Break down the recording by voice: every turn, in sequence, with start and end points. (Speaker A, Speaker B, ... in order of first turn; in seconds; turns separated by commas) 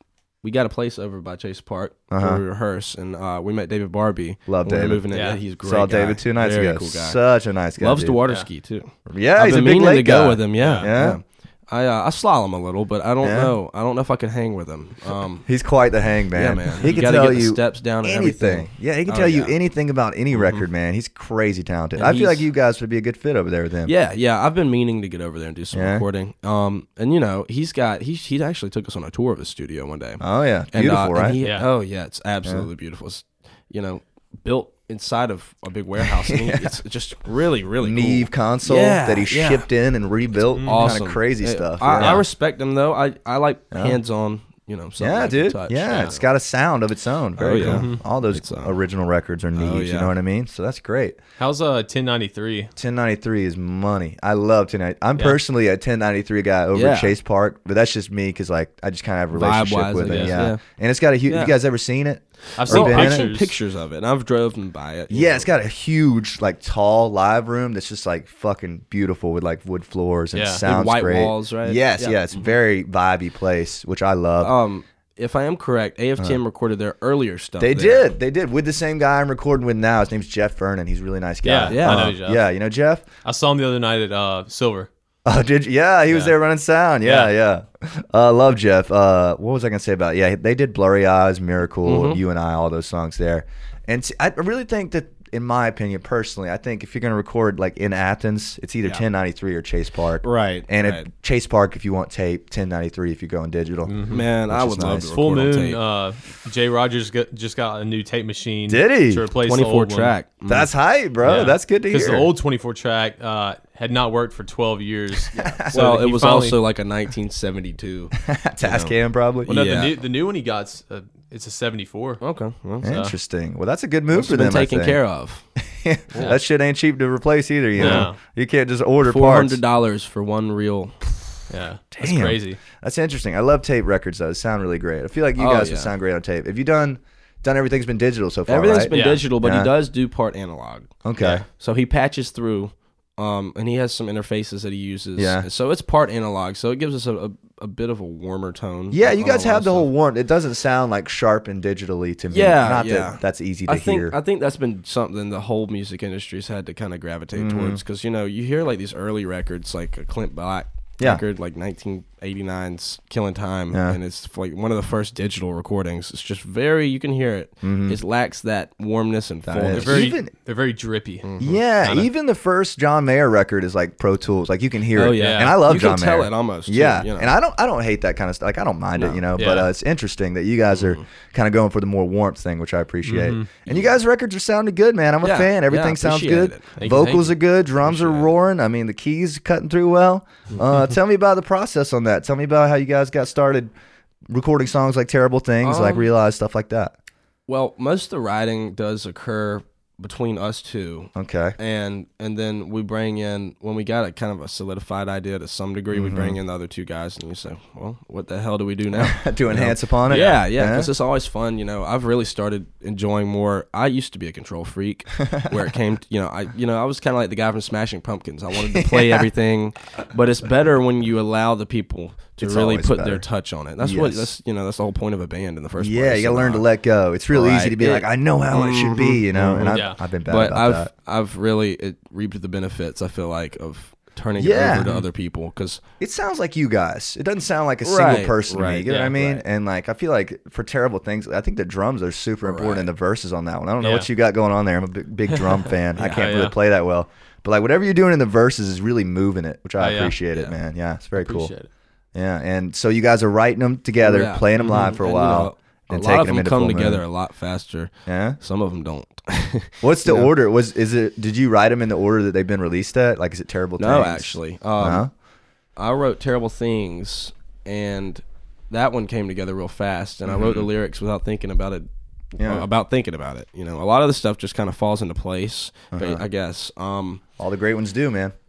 Speaker A: 0.4-7.2, Speaker B: 2.1-2.4, Speaker B: 4.5-5.1, Speaker C: 5.1-5.4, Speaker B: 5.6-8.2, Speaker A: 7.8-15.5, Speaker B: 9.1-11.2, Speaker C: 10.6-10.9, Speaker B: 13.2-13.5, Speaker B: 15.4-23.9, Speaker A: 16.3-19.5, Speaker A: 20.3-20.6, Speaker A: 21.9-22.4, Speaker A: 23.8-39.6, Speaker B: 25.7-26.0, Speaker B: 30.2-31.4, Speaker C: 31.4-31.7, Speaker B: 36.0-36.8, Speaker B: 37.8-42.2, Speaker C: 40.5-41.0, Speaker A: 40.6-46.2, Speaker C: 42.0-42.2, Speaker B: 43.7-44.0, Speaker B: 45.0-51.2, Speaker A: 47.4-48.8, Speaker C: 47.6-48.0, Speaker A: 49.5-50.1, Speaker C: 51.4-52.7, Speaker B: 52.8-63.3, Speaker A: 56.7-57.1, Speaker A: 59.3-60.6, Speaker C: 60.0-60.4, Speaker A: 61.3-61.6, Speaker C: 62.6-63.5, Speaker A: 62.6-65.5, Speaker B: 65.1-74.5, Speaker C: 70.3-70.6, Speaker A: 70.6-72.4, Speaker A: 74.4-78.1, Speaker B: 77.6-83.0, Speaker C: 81.4-82.4, Speaker A: 81.7-82.1, Speaker C: 83.2-84.9, Speaker B: 85.2-105.1, Speaker C: 86.1-86.3, Speaker C: 87.0-87.3, Speaker A: 91.8-92.2, Speaker A: 100.2-101.1, Speaker C: 103.8-104.2, Speaker A: 104.1-105.8, Speaker C: 105.0-110.1, Speaker B: 108.7-109.2, Speaker A: 109.4-110.7, Speaker B: 110.5-112.3, Speaker C: 111.2-116.6, Speaker B: 115.3-115.9, Speaker A: 115.3-119.9, Speaker B: 118.2-119.5, Speaker C: 119.5-122.2, Speaker A: 122.2-122.9, Speaker B: 122.8-125.0, Speaker C: 122.8-123.1, Speaker A: 124.1-125.4, Speaker B: 125.6-129.6, Speaker A: 127.8-128.1, Speaker C: 127.8-128.2, Speaker A: 129.0-131.0, Speaker C: 131.5-132.6, Speaker B: 131.9-139.7, Speaker A: 135.4-135.9, Speaker A: 138.5-140.9, Speaker C: 138.9-139.2, Speaker B: 141.0-141.4, Speaker A: 141.5-149.9, Speaker B: 145.2-145.4, Speaker B: 148.9-154.2, Speaker A: 152.3-170.1, Speaker B: 157.3-157.8, Speaker B: 163.7-164.0, Speaker B: 167.6-168.0, Speaker B: 169.4-170.3, Speaker C: 169.7-171.3, Speaker A: 171.2-171.6, Speaker B: 171.4-193.7, Speaker C: 171.8-172.1, Speaker A: 174.9-177.3, Speaker C: 175.1-175.5, Speaker A: 179.0-179.2, Speaker C: 179.3-179.7, Speaker A: 180.7-181.0, Speaker C: 183.0-183.5, Speaker A: 185.2-187.3, Speaker C: 186.8-187.3, Speaker A: 187.8-188.3, Speaker B: 194.3-196.9, Speaker A: 195.6-196.1, Speaker A: 197.5-226.7, Speaker B: 201.1-201.6, Speaker B: 205.9-206.4, Speaker B: 208.9-210.9, Speaker C: 210.1-210.4, Speaker B: 218.7-219.2, Speaker B: 222.4-223.2, Speaker B: 223.8-224.3, Speaker B: 225.8-230.9, Speaker A: 227.3-235.8, Speaker C: 229.7-230.0, Speaker B: 234.4-234.9, Speaker C: 234.7-235.1, Speaker B: 236.0-251.5, Speaker A: 237.8-239.4, Speaker C: 238.8-239.2, Speaker A: 242.4-242.9, Speaker C: 243.8-244.1, Speaker A: 245.9-246.3, Speaker C: 246.0-246.5, Speaker C: 249.8-250.2, Speaker C: 251.1-251.7, Speaker B: 252.1-257.0, Speaker A: 254.0-260.3, Speaker B: 258.1-258.4, Speaker B: 259.8-265.1, Speaker A: 263.8-265.1, Speaker A: 265.8-277.2, Speaker B: 270.3-270.7, Speaker B: 272.4-272.6, Speaker B: 275.9-276.2, Speaker B: 277.4-278.3